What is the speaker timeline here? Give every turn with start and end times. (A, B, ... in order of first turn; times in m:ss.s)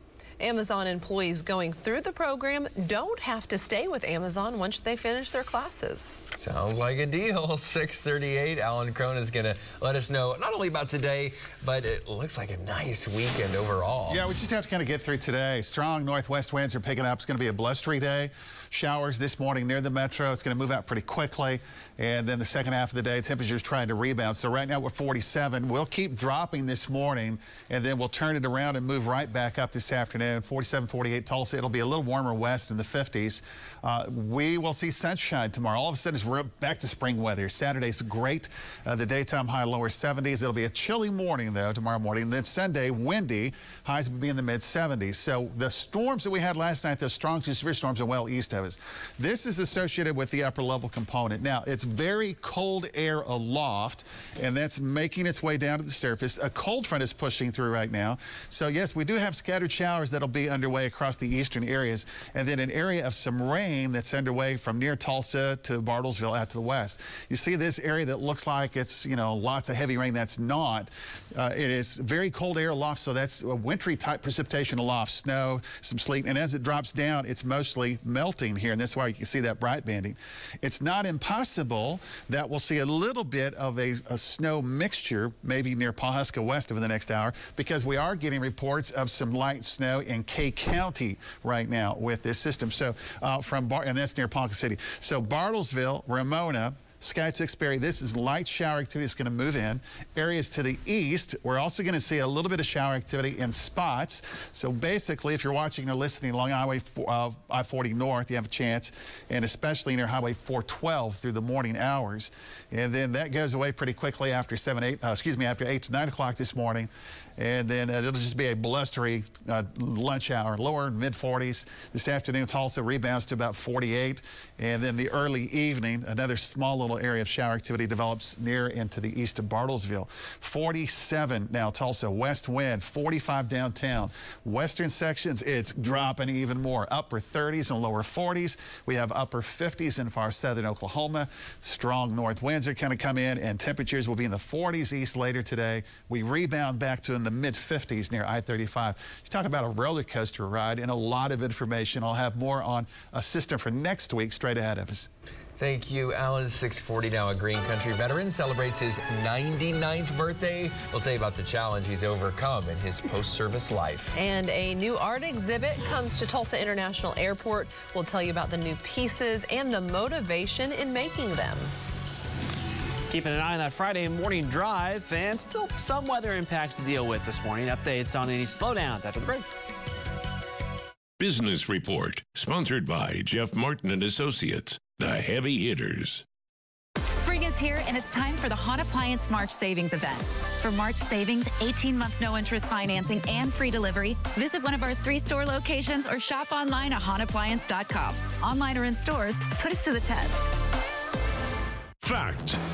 0:00.4-0:06.2 A
0:06.4-0:14.2 B
0:14.1-2:35.1 C
2:35.6-2:44.1 B
2:44.1-2:51.7 A
2:53.1-2:59.4 D
3:01.2-3:06.2 E
3:07.0-3:20.5 F
3:22.0-3:22.6 E